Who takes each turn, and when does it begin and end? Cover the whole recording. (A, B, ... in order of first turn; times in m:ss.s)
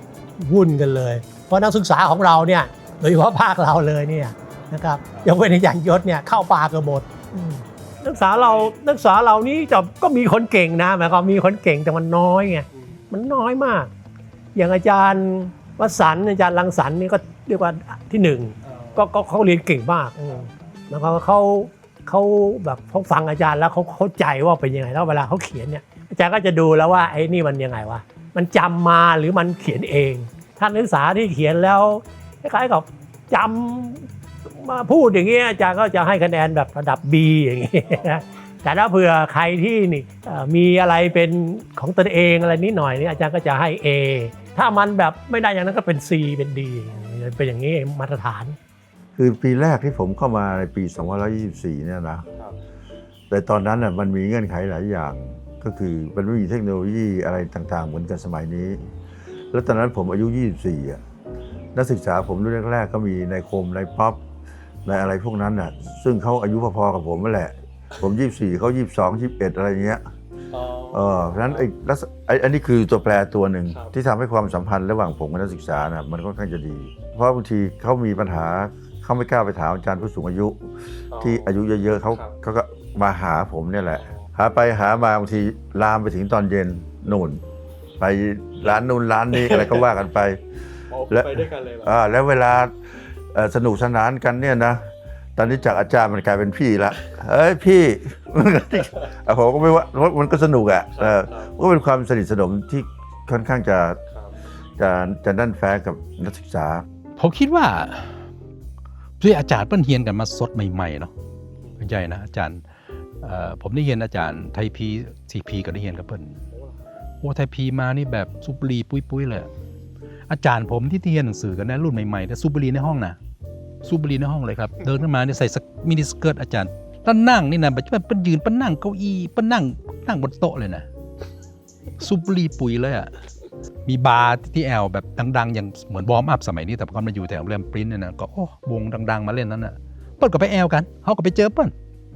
0:00.4-0:13.9 A
0:08.0-0:08.8 B
0:14.6-0:48.6 A
0:18.7-0:19.1 B
0:49.2-0:52.3 C
0:53.3-0:58.9 C
0:59.5-1:01.0 C
1:01.8-1:04.2 C
1:04.9-1:10.0 C
1:10.5-1:11.7 B
1:10.9-1:27.4 C
1:21.1-1:21.5 B
1:22.1-1:22.4 B
1:24.0-1:24.2 B
1:28.0-1:30.4 C
1:29.3-1:29.8 B
1:30.9-1:31.9 B
1:31.1-1:32.8 C
1:33.3-1:44.0 C
1:40.9-1:41.5 B
1:44.8-1:46.8 C
1:47.2-1:48.2 D
1:49.2-1:51.1 D
1:51.8-1:52.6 D
1:53.2-1:56.4 D
1:57.2-1:59.5 D
2:00.3-2:03.2 D
2:03.8-2:10.8 D
2:12.0-2:13.1 D
2:13.9-2:21.7 D